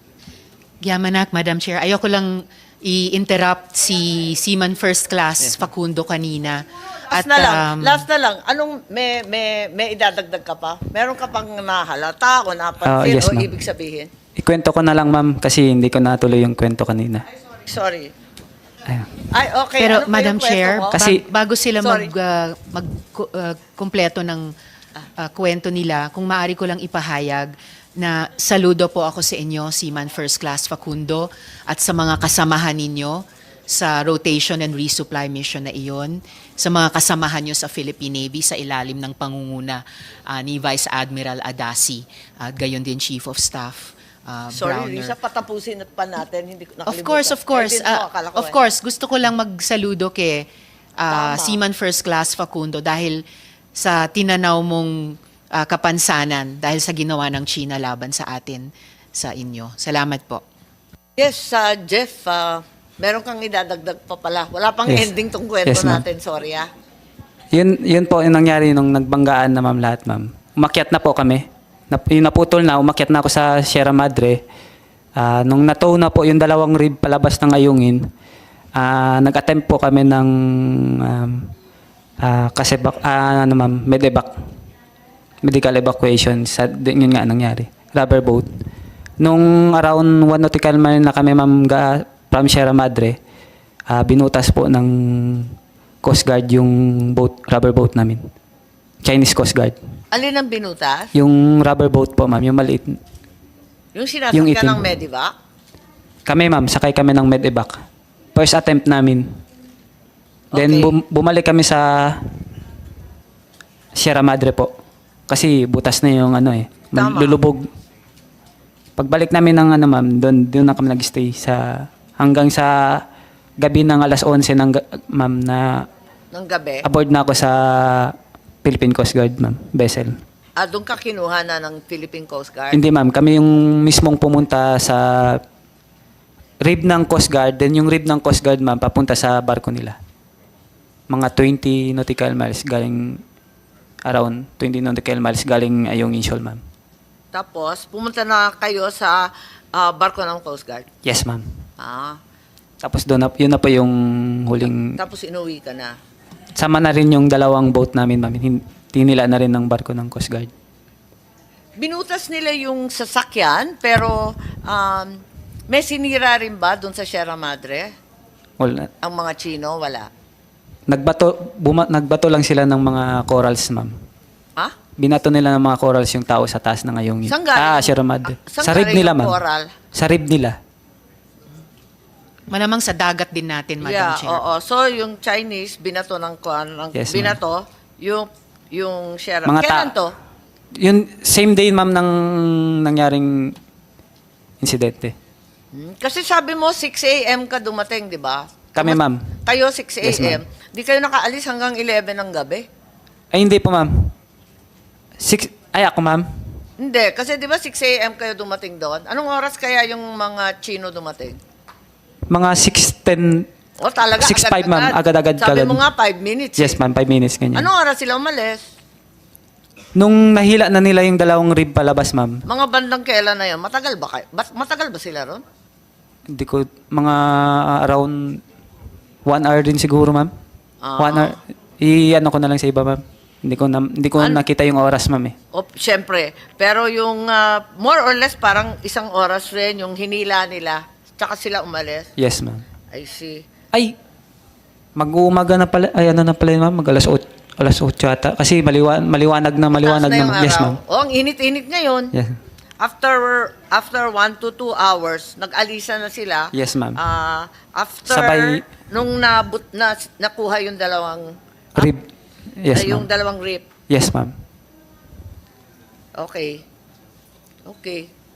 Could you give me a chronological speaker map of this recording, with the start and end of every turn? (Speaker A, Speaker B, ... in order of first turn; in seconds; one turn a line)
Speaker A: 0.8-8.0
Speaker B: 7.1-14.1
Speaker C: 12.8-13.5
Speaker C: 14.4-17.2
Speaker B: 17.4-18.1
Speaker B: 19.3-20.9
Speaker A: 19.8-24.5
Speaker C: 20.9-21.2
Speaker B: 21.8-22.1
Speaker A: 25.2-45.1
Speaker B: 44.5-48.5
Speaker A: 46.9-53.2
Speaker B: 51.1-51.6
Speaker A: 53.7-60.4
Speaker B: 61.2-66.7
Speaker C: 65.7-66.0
Speaker C: 67.5-74.4
Speaker C: 75.2-78.0
Speaker C: 78.8-80.3
Speaker C: 81.0-81.5
Speaker C: 82.2-84.3
Speaker C: 85.4-88.5
Speaker C: 89.2-93.2
Speaker C: 93.9-95.5
Speaker C: 96.0-98.2
Speaker C: 99.0-99.8
Speaker B: 100.1-101.1
Speaker C: 101.1-102.9
Speaker B: 103.9-105.3
Speaker C: 104.3-104.8
Speaker C: 106.2-107.8
Speaker C: 108.3-109.2
Speaker B: 110.5-110.9
Speaker C: 110.5-112.2
Speaker C: 114.0-114.7
Speaker C: 115.3-117.7
Speaker B: 116.9-117.4
Speaker C: 119.0-123.0
Speaker C: 123.6-125.8
Speaker B: 126.3-126.8
Speaker C: 126.8-130.1
Speaker B: 130.6-132.8
Speaker C: 132.7-135.4
Speaker C: 136.6-140.0
Speaker C: 141.1-143.2
Speaker C: 144.0-146.6
Speaker B: 147.3-150.8
Speaker C: 151.0-151.4
Speaker B: 151.8-152.2
Speaker C: 152.8-154.9
Speaker B: 154.6-155.9
Speaker C: 156.6-160.5
Speaker B: 161.8-167.9
Speaker C: 168.6-168.9
Speaker B: 169.0-170.1
Speaker C: 170.9-173.9
Speaker C: 175.0-179.3
Speaker B: 177.3-179.7
Speaker C: 179.9-180.5
Speaker A: 182.5-184.4
Speaker B: 183.8-190.1
Speaker C: 186.9-187.4
Speaker C: 189.4-189.9
Speaker C: 190.8-193.5
Speaker C: 194.6-195.1
Speaker B: 195.7-202.6
Speaker C: 198.7-199.2
Speaker C: 200.0-200.4
Speaker C: 203.3-203.9
Speaker C: 205.2-206.2
Speaker B: 206.8-211.4
Speaker C: 212.3-213.4
Speaker B: 213.8-216.8
Speaker C: 214.2-215.8
Speaker C: 216.6-217.7
Speaker B: 217.5-218.6
Speaker C: 219.9-222.4
Speaker B: 222.5-225.4
Speaker C: 226.3-228.2
Speaker C: 229.2-230.3
Speaker B: 230.8-231.3
Speaker C: 231.0-235.3
Speaker B: 235.5-242.1
Speaker C: 242.2-242.6
Speaker B: 242.9-243.4
Speaker C: 244.9-250.8
Speaker B: 249.7-252.1
Speaker B: 252.8-261.2
Speaker C: 256.5-257.0
Speaker C: 258.1-258.6
Speaker C: 262.6-263.1
Speaker B: 262.7-263.7
Speaker C: 263.9-264.3
Speaker B: 266.1-266.6
Speaker B: 267.6-268.1